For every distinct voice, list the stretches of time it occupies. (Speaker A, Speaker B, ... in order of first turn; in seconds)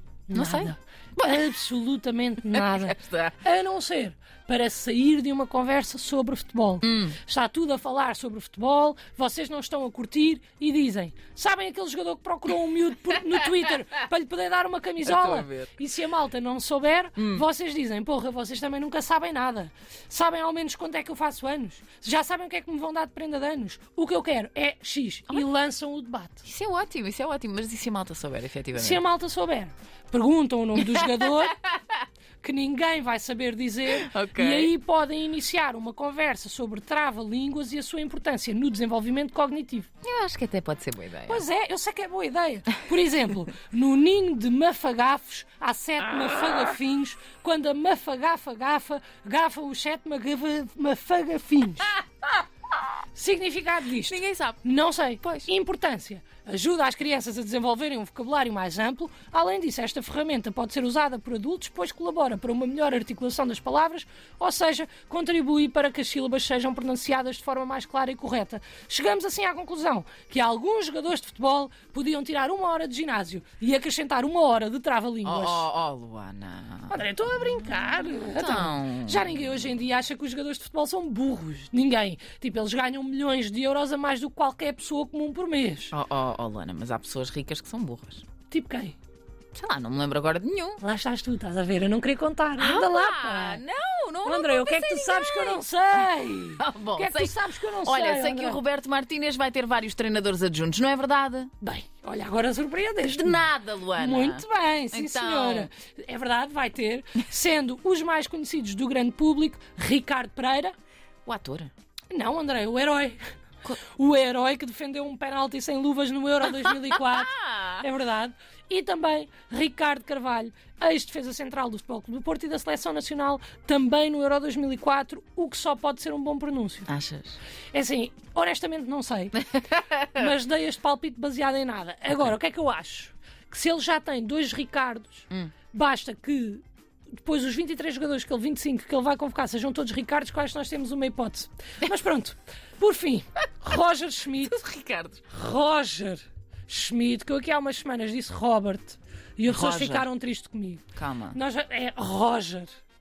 Speaker A: 0.3-26.4, 28.8-31.6, 32.4-39.9, 41.3-51.9, 53.1-75.7, 76.9-85.9, 88.5-89.0, 90.8-93.6, 94.2-98.6, 101.6-110.7, 112.1-113.2, 113.8-126.9, 127.7-129.4, 130.0-136.6, 137.2-144.6, 145.3-152.8
Speaker B: 0.3-1.5, 2.4-3.4, 6.8-7.2, 15.0-15.7, 17.2-17.4, 26.4-29.0, 30.8-32.0, 33.9-34.7, 40.0-41.4, 54.1-54.6, 55.2-55.5, 75.2-77.0, 78.3-79.4, 85.9-88.2, 89.5-90.8, 92.6-101.5, 103.0-105.7, 111.2-111.7, 116.6-117.8, 126.9-127.4, 129.5-130.2, 144.4-145.2, 149.5-150.1, 150.9-151.4